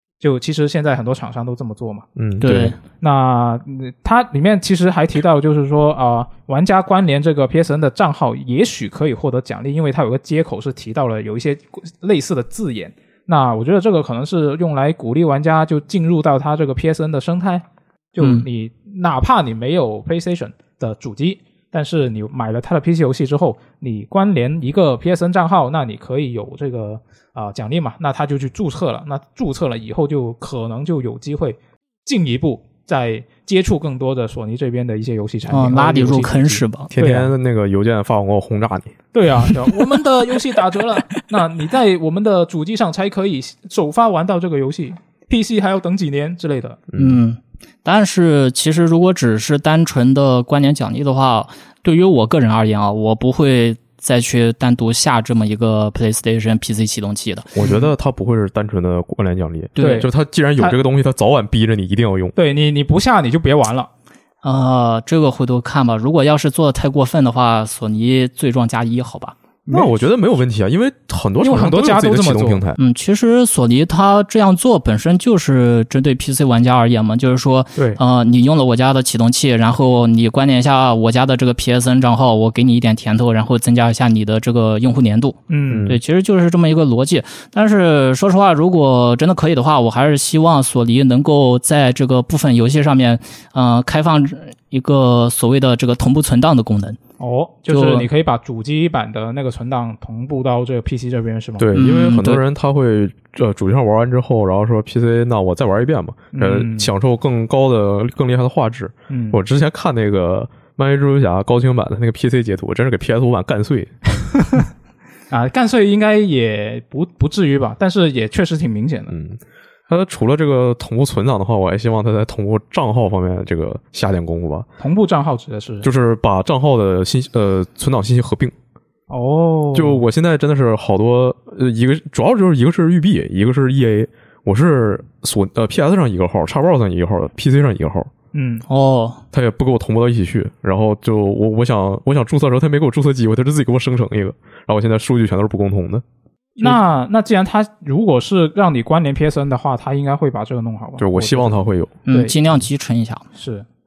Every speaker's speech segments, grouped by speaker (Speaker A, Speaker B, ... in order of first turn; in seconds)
Speaker A: 0.2-2.0, 3.0-37.3, 39.1-46.8, 57.6-57.9, 59.8-60.8, 62.4-63.9, 69.7-69.9, 71.4-72.6, 85.5-85.9, 97.2-101.7, 106.3-106.9, 109.1-109.4, 115.3-119.1, 124.8-125.9, 129.1-130.0, 138.3-138.6, 146.6-152.4, 153.3-153.7
Speaker B: 2.1-2.8, 36.9-38.9, 46.9-47.2, 57.5-62.3, 69.7-72.8, 85.7-86.0, 101.6-113.9, 119.1-124.7, 125.8-128.5, 129.7-138.1, 139.3-146.0, 151.0-151.9
Speaker C: 2.4-2.8, 18.2-18.4, 35.5-36.9, 47.0-57.5, 59.8-60.0, 64.4-69.3, 72.8-97.0, 97.7-98.0, 101.7-102.4, 138.7-139.2, 152.1-153.2